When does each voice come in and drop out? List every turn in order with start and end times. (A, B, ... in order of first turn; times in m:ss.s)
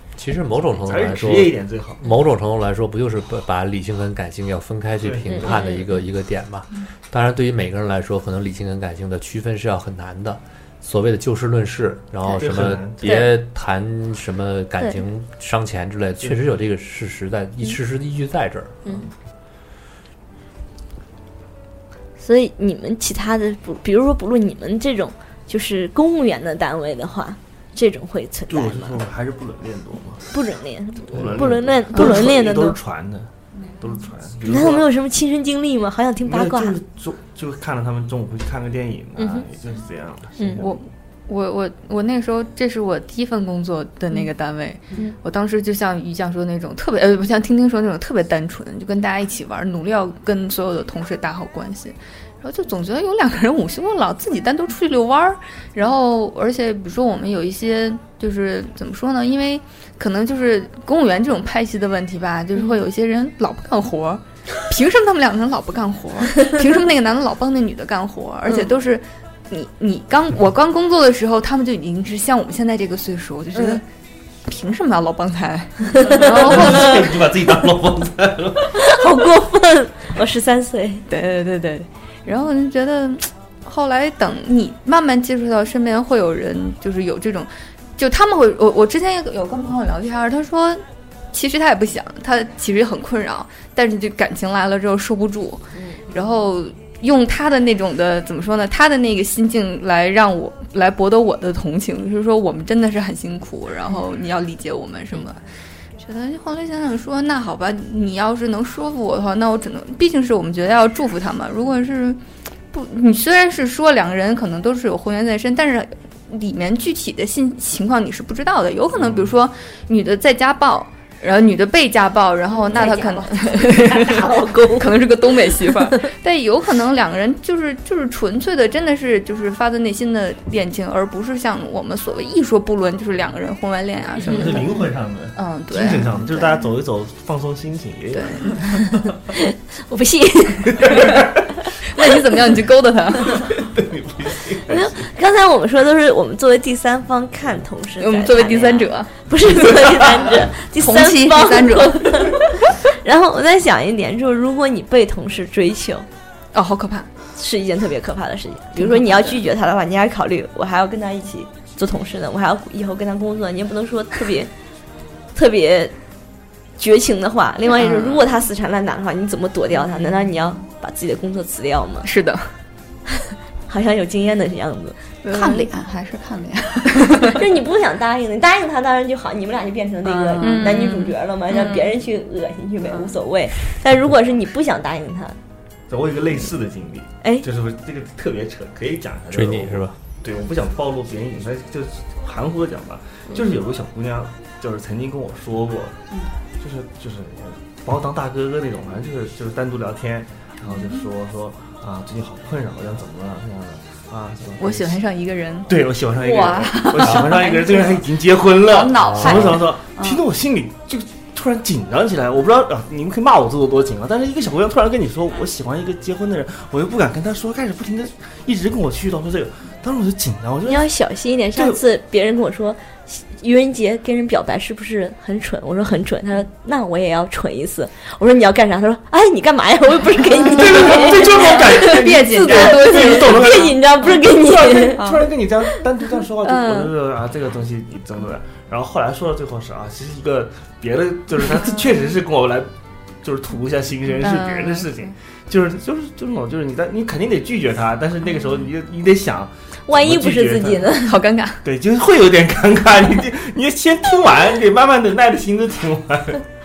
0:00.2-0:18.9 A
0:00.8-0:02.0 B
0:05.0-0:05.6 B
0:05.3-0:05.9 C
0:12.4-0:13.2 B
0:13.0-0:13.3 C
0:22.2-0:29.0 C
0:28.5-0:30.4 B
0:30.3-0:32.8 C
0:31.1-0:34.9 B
0:34.4-0:36.8 C
0:36.2-0:40.8 B
0:39.2-0:39.4 C
0:40.4-0:40.6 C
0:40.6-1:13.8 D
1:14.5-1:17.2 D
1:15.9-1:16.9 C
1:16.1-1:18.8 B
1:18.7-1:21.1 C
1:21.1-1:45.4 D
1:46.0-1:52.2 D
1:52.7-2:16.5 D
1:59.0-1:59.3 B
2:02.7-2:06.0 C
2:02.8-2:03.1 E
2:14.2-2:18.8 B
2:18.1-2:19.1 D
2:19.3-2:21.0 C
2:20.8-2:21.1 B
2:21.9-2:23.5 D
2:23.4-2:25.0 B
2:24.7-2:36.1 C
2:28.0-2:29.1 D
2:30.8-2:32.2 E
2:36.5-2:37.1 D
2:37.4-2:44.5 C
2:38.8-2:39.4 D
2:45.4-2:45.9 C
2:46.8-2:52.1 C
2:52.0-2:52.5 D
2:53.7-2:55.0 C
2:55.2-2:55.7 D
2:55.3-2:57.3 E
2:56.9-2:57.4 D
2:57.3-3:05.4 C
3:00.3-3:00.7 E
3:00.4-3:01.9 D
3:05.9-3:16.0 B
3:09.3-3:10.0 A
3:16.6-3:25.0 B
3:24.6-3:25.8 D
3:25.7-3:40.9 B
3:26.2-3:28.0 E
3:28.6-3:30.2 E
3:40.7-3:55.0 C
3:50.4-4:02.7 B
3:50.5-3:53.7 D
3:56.4-3:56.8 C
4:03.2-4:10.9 B
4:04.2-4:04.9 D
4:09.9-4:11.2 C
4:11.0-4:11.6 D
4:11.6-4:16.4 B